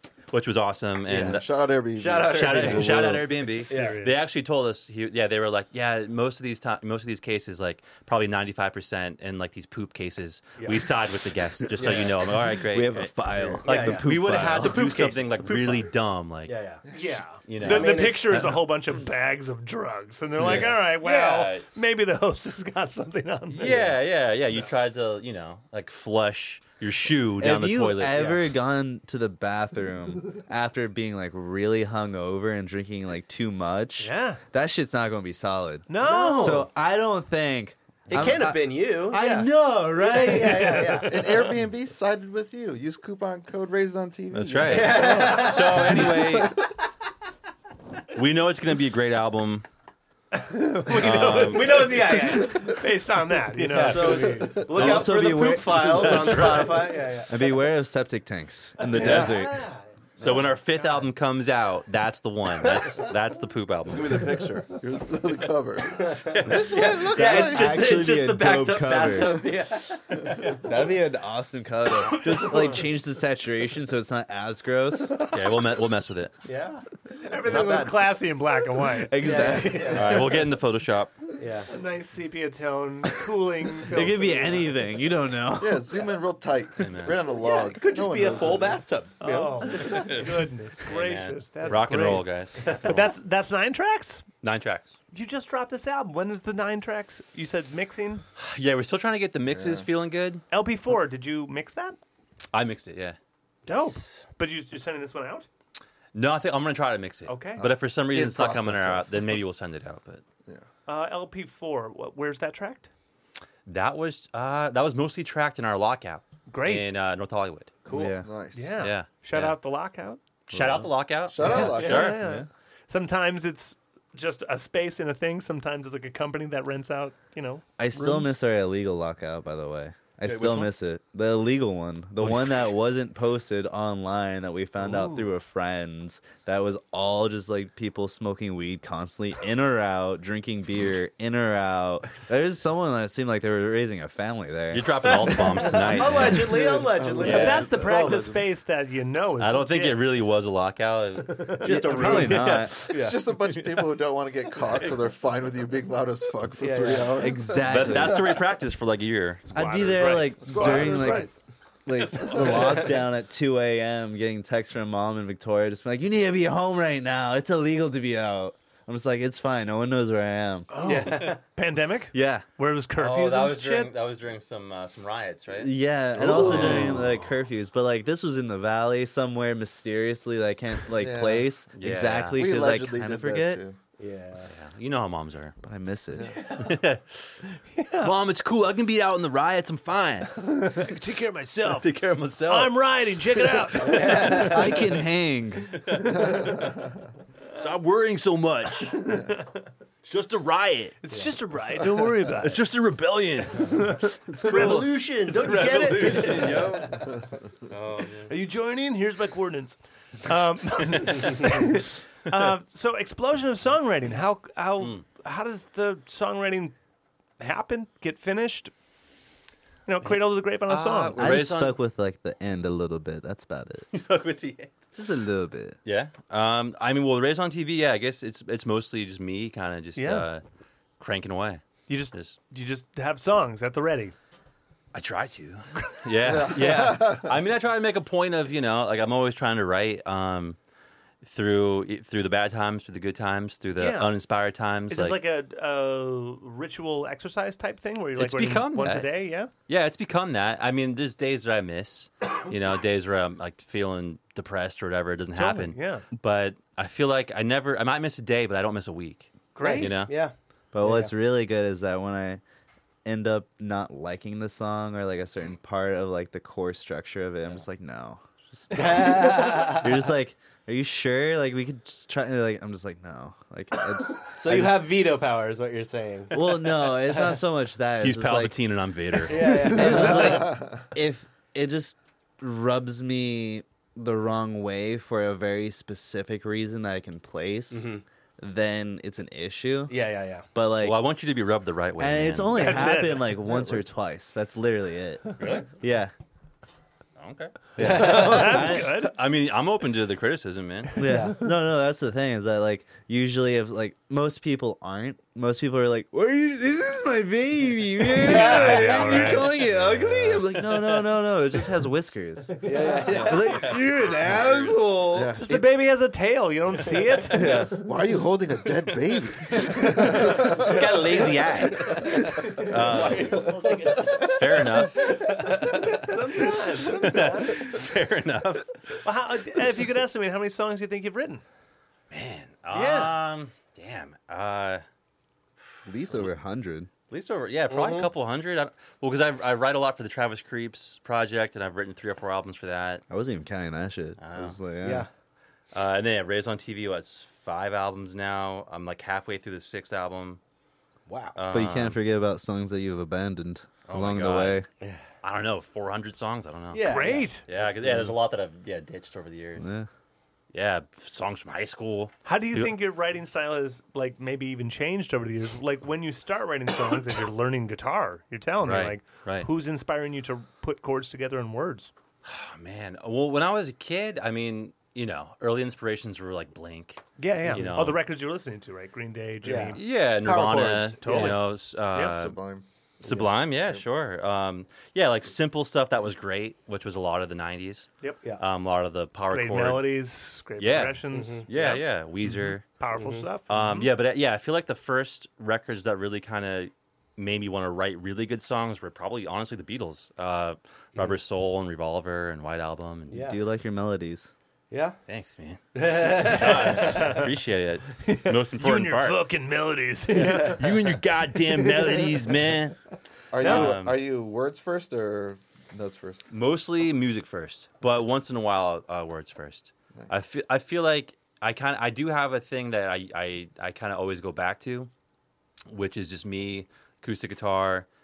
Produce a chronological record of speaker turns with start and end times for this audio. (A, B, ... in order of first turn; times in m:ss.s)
0:00.3-0:01.5 A
0:01.1-0:03.3 B
0:01.1-0:01.4 C
0:01.9-0:04.1 C
0:02.2-0:16.5 A
0:03.5-0:04.2 D
0:11.8-0:12.2 C
0:12.5-0:14.8 E
0:13.6-0:14.1 C
0:14.8-0:15.8 D
0:16.5-0:16.8 C
0:16.9-0:17.2 B
0:16.9-0:23.9 D
0:17.4-0:18.6 A
0:17.6-0:18.4 C
0:20.4-0:21.7 A
0:20.4-0:20.7 C
0:23.5-0:28.4 A
0:23.6-0:24.0 C
0:27.4-0:40.9 E
0:34.0-0:34.4 D
0:35.9-0:36.6 D
0:36.0-0:36.7 C
0:38.1-0:41.3 C
0:40.2-0:41.5 D
0:41.1-0:46.7 B
0:44.3-0:46.6 A
0:44.6-0:46.4 C
0:44.8-0:45.5 D
0:48.1-0:49.6 A
0:50.3-0:54.6 D
0:50.9-0:52.1 A
0:51.0-0:52.7 C
0:53.6-0:57.6 C
0:53.7-0:55.1 A
0:54.2-0:55.0 B
0:54.7-0:59.7 E
0:55.8-0:56.8 A
0:58.9-0:59.8 D
0:59.0-0:59.4 C
1:00.2-1:04.4 A
1:03.9-1:08.0 B
1:06.1-1:10.6 C
1:06.2-1:06.8 A
1:07.1-1:09.5 E
1:10.5-1:15.2 E
1:15.3-1:16.3 A
1:16.4-1:16.8 C
1:17.1-1:19.9 D
1:17.4-1:18.1 C
1:18.9-1:20.4 E
1:19.2-1:20.3 C
1:19.9-1:21.1 A
1:21.4-1:21.7 C
1:21.7-1:24.7 D
1:23.8-1:26.0 E
1:25.6-1:28.8 B
1:26.8-1:27.2 A
1:27.3-1:30.2 C
1:29.2-1:34.3 D
1:29.8-1:30.3 A
1:30.8-1:33.1 A
1:34.4-1:35.0 A
1:35.1-1:38.2 D
1:38.4-1:40.4 A
1:39.5-1:39.9 B
1:40.5-1:42.0 D
1:42.5-1:43.2 A
1:43.7-1:45.5 D
1:43.7-1:44.2 C
1:46.1-1:50.2 A
1:47.3-1:47.6 D
1:47.6-1:49.4 B
1:50.9-1:52.9 D
1:53.7-1:57.7 A
1:56.5-1:56.9 D
1:57.8-1:58.2 C
1:57.9-1:58.3 E
1:58.2-1:58.8 B
1:58.5-2:00.2 D
1:58.8-1:59.6 A
2:00.5-2:02.2 A
2:00.5-2:00.9 E
2:01.3-2:02.2 B
2:01.4-2:08.3 D
2:01.5-2:02.5 E
2:07.8-2:25.4 E
2:10.3-2:10.6 C
2:14.8-2:15.2 D
2:24.7-2:27.7 A
2:25.6-2:28.3 C
2:26.0-2:28.4 B
2:26.5-2:30.0 D
2:29.4-2:32.6 A
2:31.4-2:32.6 D
2:31.6-2:33.2 C
2:31.6-2:32.8 E
2:32.8-2:38.5 B
2:36.6-2:37.3 C
2:37.2-2:38.4 E
2:37.6-2:39.5 A
2:39.5-2:41.3 D
2:39.5-2:41.3 E
2:40.4-2:41.4 B
2:41.9-2:50.7 E
2:42.3-2:42.8 A
2:42.4-2:42.6 B
2:50.7-2:53.9 D
2:50.8-2:51.4 C
2:52.1-2:52.5 E
2:53.0-2:57.1 A
2:55.5-3:03.6 E
2:56.2-2:57.0 B
3:01.0-3:01.5 B
3:01.7-3:02.4 A
3:02.1-3:03.8 B
3:04.0-3:04.5 C
3:04.5-3:05.6 A
3:05.6-3:06.4 E
3:06.1-3:06.4 B
3:06.5-3:07.4 A
3:07.5-3:08.2 D
3:08.0-3:10.4 A
3:10.3-3:14.5 D
3:11.7-3:14.6 A
3:13.8-3:14.8 C
3:14.4-3:15.8 E
3:15.7-3:16.5 A
3:16.1-3:16.9 B
3:17.5-3:19.0 A
3:18.9-3:19.6 D
3:20.0-3:21.0 A
3:21.0-3:22.6 D
3:22.4-3:23.8 A
3:23.5-3:26.7 D
3:24.3-3:27.1 A
3:24.4-3:27.0 C
3:27.7-3:28.3 A
3:28.2-3:36.8 D
3:34.8-3:35.1 A
3:37.4-3:38.7 D
3:39.9-3:41.2 D
3:40.0-3:41.8 A
3:41.2-3:43.9 E
3:43.9-3:44.8 A
3:45.0-3:45.8 E
3:45.8-3:50.4 A
3:50.0-3:50.3 D
3:51.0-3:52.4 A
3:51.9-3:54.2 D
3:54.9-4:00.6 A
3:56.2-3:57.4 B
4:01.2-4:05.2 A
4:03.8-4:04.1 D
4:04.9-4:09.5 D
4:08.2-4:09.1 A
4:09.7-4:20.1 A
4:15.4-4:16.1 D
4:19.5-4:20.0 D
4:19.6-4:21.1 C
4:20.7-4:22.4 E
4:23.0-4:35.0 E
4:28.7-4:30.0 C
4:34.1-4:37.4 C
4:36.3-4:38.6 E
4:38.0-4:39.9 A
4:39.3-4:40.4 C
4:39.4-4:50.0 E
4:39.9-4:40.8 B
4:47.7-4:48.0 C
4:49.9-4:50.5 C
4:50.5-4:51.0 E
4:50.8-4:52.7 A
4:52.0-4:56.1 E
4:52.5-4:53.4 D
4:53.4-4:53.8 B
4:55.4-4:55.7 A
4:57.2-5:01.0 A
4:57.8-4:58.7 C
4:57.8-4:59.1 E
4:57.9-4:59.2 D
5:01.0-5:15.7 E
5:01.0-5:01.4 C
5:08.2-5:09.5 C
5:08.2-5:09.7 D
5:12.6-5:13.6 C
5:12.7-5:13.0 D
5:13.1-5:14.9 A
5:15.1-5:15.4 B
5:15.4-5:17.8 D
5:17.3-5:17.9 E
5:17.7-5:21.3 B
5:19.6-5:20.4 D
5:20.2-5:23.6 A
5:21.8-5:24.3 B
5:21.8-5:27.3 C
5:24.2-5:25.6 A
5:25.2-5:27.8 D
5:26.3-5:28.9 A
5:29.0-5:31.4 D
5:32.1-5:34.8 A
5:32.7-5:33.2 D
5:35.9-5:36.9 E
5:37.1-5:43.0 A
5:37.7-5:38.1 C
5:43.1-5:45.1 E
5:44.2-5:44.6 A
5:44.8-5:45.1 C
5:45.7-5:50.4 A
5:51.1-5:51.4 C
5:51.4-5:52.0 A
5:51.5-5:54.7 E
5:53.9-5:54.6 A
5:55.2-5:59.7 A
5:56.7-5:58.2 C
5:56.8-5:57.5 D
5:59.6-5:59.9 E
6:00.5-6:02.8 A
6:02.2-6:11.9 D
6:08.6-6:09.5 A
6:12.2-6:18.0 A
6:17.2-6:22.2 D
6:17.5-6:17.8 C
6:19.4-6:21.4 C
6:19.8-6:22.4 A
6:22.0-6:22.7 B
6:23.0-6:23.3 C
6:23.0-6:29.9 A
6:23.6-6:23.8 B
6:29.3-6:33.9 D
6:30.6-6:32.7 A
6:31.1-6:31.5 C
6:32.9-6:33.3 C
6:33.5-6:43.3 A
6:43.1-6:43.4 C
6:43.2-6:44.3 E
6:44.7-6:45.0 C
6:45.1-6:49.2 A
6:45.8-6:47.2 C
6:46.7-6:47.3 D
6:48.0-6:51.0 D
6:50.2-6:50.6 C
6:50.2-6:52.8 A
6:53.3-6:56.3 B
6:53.4-6:54.0 A
6:53.4-6:53.7 D
6:56.3-7:04.9 A
7:05.7-7:07.9 A